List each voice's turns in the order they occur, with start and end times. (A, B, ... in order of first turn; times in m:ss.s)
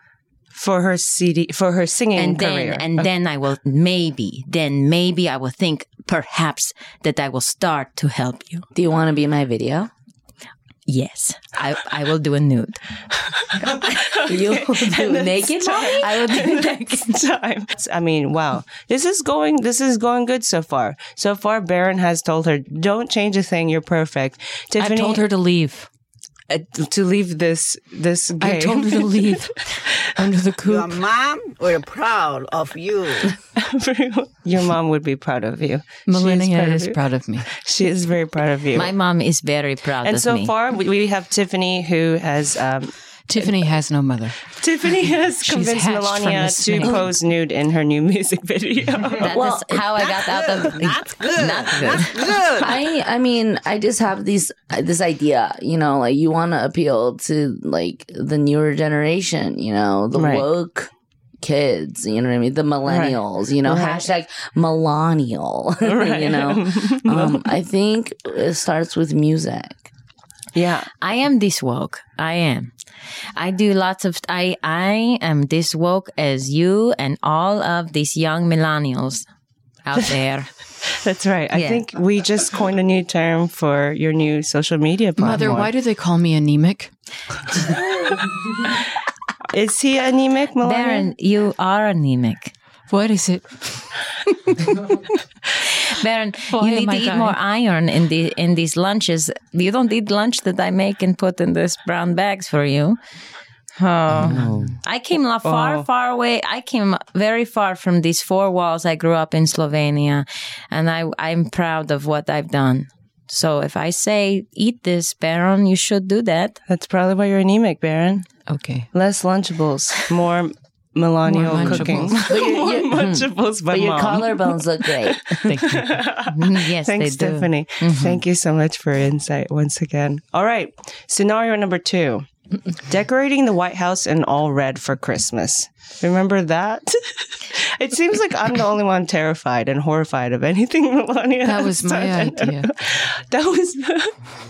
0:00.5-0:03.1 A
0:02.2-0:08.6 B
0:08.7-0:09.9 C
0:10.9-0:12.8 B
0:13.4-0:25.2 A
0:14.2-0:17.0 C
0:15.8-0:16.8 B
0:24.8-0:25.9 D
0:26.5-0:30.0 A
0:28.4-0:31.0 D
0:30.6-0:33.3 E
0:33.6-0:37.0 A
0:36.1-0:37.5 D
0:37.5-0:38.9 A
0:38.7-0:40.5 B
0:40.0-0:43.5 A
0:43.3-0:44.5 D
0:44.5-0:49.3 A
0:45.4-0:47.0 D
0:49.2-0:52.4 B
0:49.2-0:50.4 C
0:50.1-0:52.8 E
0:52.6-1:00.9 C
1:00.1-1:00.4 A
1:01.4-1:09.9 C
1:02.9-1:04.0 A
1:05.8-1:07.5 A
1:10.5-1:10.9 A
1:11.0-1:12.7 B
1:13.4-1:19.2 B
1:19.8-1:20.5 B
1:20.9-1:25.7 A
1:21.5-1:21.8 B
1:25.2-1:26.9 D
1:29.5-1:31.1 A
1:30.6-1:32.5 B
1:32.9-1:33.9 D
1:35.6-1:43.0 B
1:36.5-1:37.4 D
1:43.8-1:56.6 B
1:44.2-1:44.7 C
1:45.4-1:45.8 A
1:56.7-1:58.3 A
1:58.5-1:58.9 D
1:58.9-2:12.2 A
2:01.3-2:02.2 D
2:01.6-2:05.5 C
2:05.4-2:06.0 D
2:06.3-2:08.2 B
2:12.8-2:24.2 A
2:21.4-2:22.7 D